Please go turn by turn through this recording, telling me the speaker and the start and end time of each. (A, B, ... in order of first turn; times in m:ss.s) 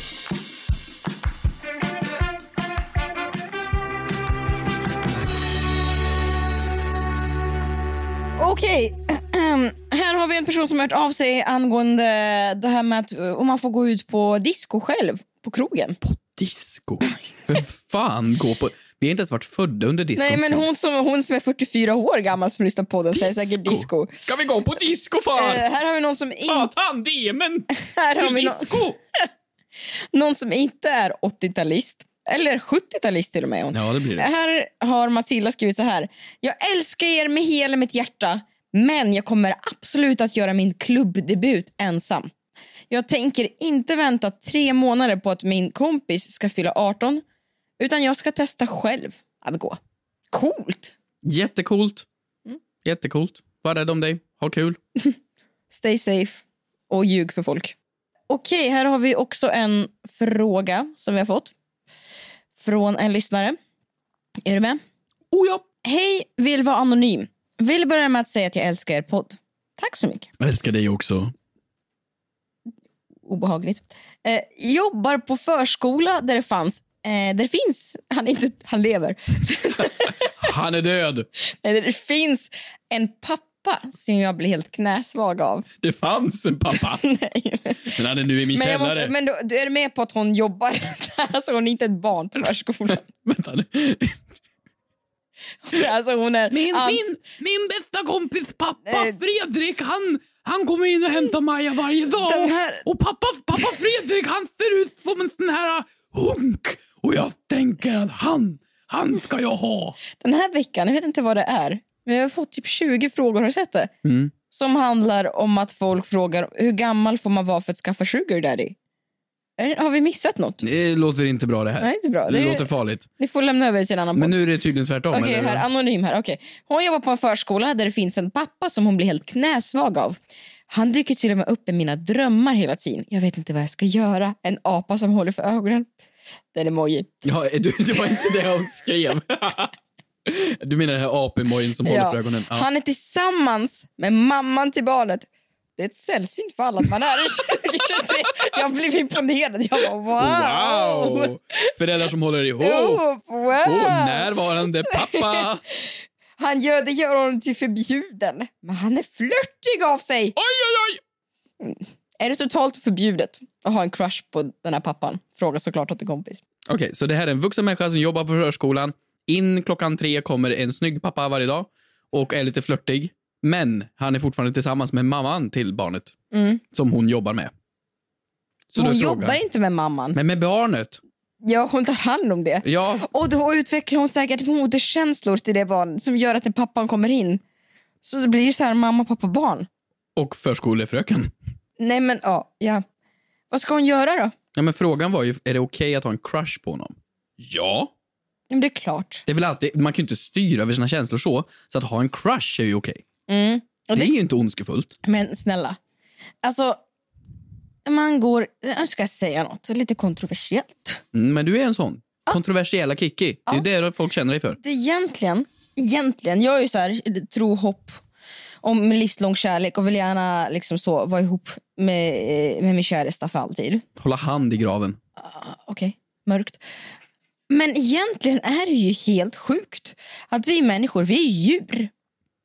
0:08.4-0:16.0 A
0:16.0-0:20.6 B
0:20.2-0:24.1 A
0:23.1-0:25.6 B
0:25.4-0:26.7 A
0:26.5-0:29.0 B
0:27.7-0:29.3 A
0:29.8-0:42.3 A
0:33.7-0:34.3 B
0:42.9-0:47.2 A
0:47.8-0:49.8 A
0:50.3-0:51.0 A
0:51.2-0:52.1 B
0:52.8-0:54.8 B
0:55.7-0:57.8 A
0:58.3-1:01.5 A
1:02.6-1:03.6 A
1:04.4-1:04.8 A
1:05.3-1:05.6 B
1:05.8-1:10.3 A
1:10.4-1:11.3 B
1:13.3-1:20.5 A
1:20.2-1:21.3 B
1:21.6-1:25.7 A
1:25.8-1:27.0 B
1:26.7-1:28.0 A
1:28.0-1:29.1 B
1:28.5-1:33.0 A
1:32.9-1:34.2 B
1:35.7-1:37.1 A
1:36.5-1:50.0 B
1:38.9-1:39.2 A
1:42.2-1:42.8 A
1:50.1-1:53.9 A
1:54.0-1:54.3 B
1:54.5-1:58.8 A
1:59.6-2:00.6 A
2:00.6-2:03.1 B
2:01.8-2:02.7 A
2:03.2-2:04.3 A
2:04.2-2:05.6 B
2:05.1-2:15.9 A
2:16.5-2:17.1 A
2:17.2-2:19.7 B
2:20.3-2:22.7 B
2:21.8-2:25.3 A
2:25.8-2:31.7 A
2:30.2-2:33.0 B
2:32.6-2:34.3 A
2:33.6-2:35.6 B
2:34.9-2:40.4 A
2:40.4-2:41.0 B
2:41.6-2:46.4 A
2:46.7-2:56.2 B
2:56.3-2:56.6 A
2:56.7-2:57.5 B
2:58.7-2:59.4 B
2:58.8-3:00.2 A
3:00.2-3:01.0 B
3:01.4-3:07.4 A
3:02.6-3:03.0 B
3:08.0-3:09.7 A
3:10.2-3:11.3 B
3:11.8-3:12.8 A
3:13.5-3:14.3 A
3:14.6-3:17.9 B
3:18.5-3:19.2 A
3:19.3-3:23.0 B
3:23.3-3:24.1 A
3:23.9-3:25.0 B
3:25.0-3:25.8 A
3:26.4-3:26.8 A
3:27.9-3:31.0 A
3:31.1-3:34.6 B
3:34.6-3:38.0 A
3:38.6-3:43.8 A
3:44.0-3:45.0 B
3:45.2-3:46.6 A
3:47.5-3:51.9 A